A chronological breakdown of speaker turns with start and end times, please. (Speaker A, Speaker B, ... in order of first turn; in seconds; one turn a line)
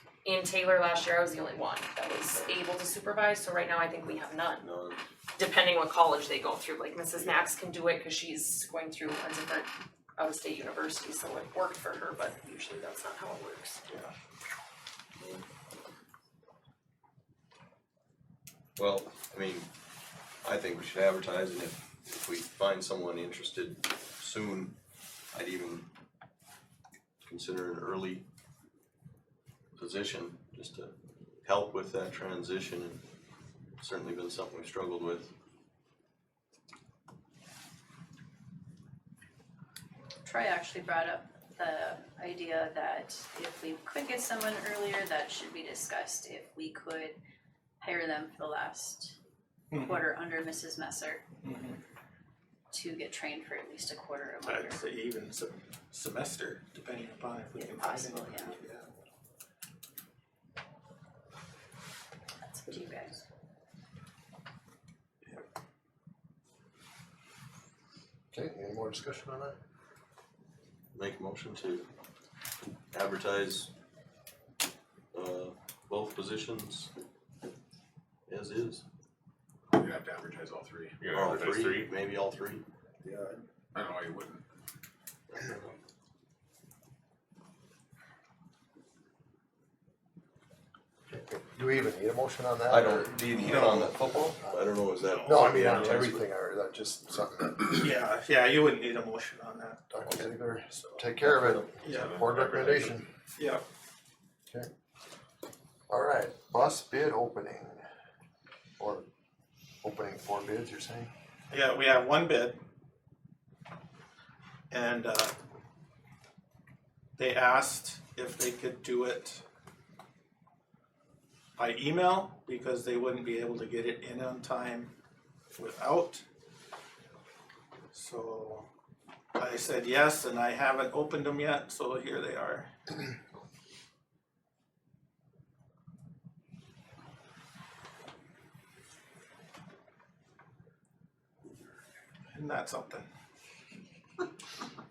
Speaker A: 0.2-4.7
Speaker B: 4.6-5.0
Speaker A: 5.4-13.8
Speaker B: 15.2-15.4
Speaker B: 18.8-19.7
Speaker B: 20.4-24.8
Speaker B: 25.3-25.9
Speaker B: 27.2-28.2
Speaker B: 29.8-33.0
Speaker B: 33.8-35.3
Speaker C: 40.2-47.2
Speaker C: 47.8-49.2
Speaker D: 49.7-50.0
Speaker C: 49.8-51.2
Speaker D: 51.4-51.8
Speaker C: 52.7-54.8
Speaker D: 54.5-58.9
Speaker C: 57.5-58.5
Speaker C: 62.4-63.2
Speaker E: 68.3-69.6
Speaker B: 70.9-71.9
Speaker B: 72.9-73.7
Speaker B: 75.1-76.9
Speaker B: 78.3-78.8
Speaker F: 79.7-81.9
Speaker B: 81.1-82.7
Speaker E: 83.0-83.4
Speaker F: 83.8-84.4
Speaker B: 85.3-85.7
Speaker E: 91.1-94.5
Speaker B: 92.7-96.3
Speaker D: 95.0-96.0
Speaker E: 95.2-97.7
Speaker D: 97.7-99.8
Speaker E: 99.9-103.1
Speaker B: 100.0-100.3
Speaker D: 100.7-101.0
Speaker B: 101.2-101.7
Speaker D: 101.8-102.2
Speaker F: 101.8-103.0
Speaker D: 103.3-103.6
Speaker E: 105.9-107.8
Speaker E: 108.8-109.1
Speaker E: 109.8-111.1
Speaker D: 111.5-112.6
Speaker D: 114.7-115.3
Speaker D: 117.2-119.4
Speaker D: 121.6-124.9
Speaker D: 125.5-126.2
Speaker D: 127.9-128.7
Speaker D: 129.4-132.7
Speaker D: 142.3-143.1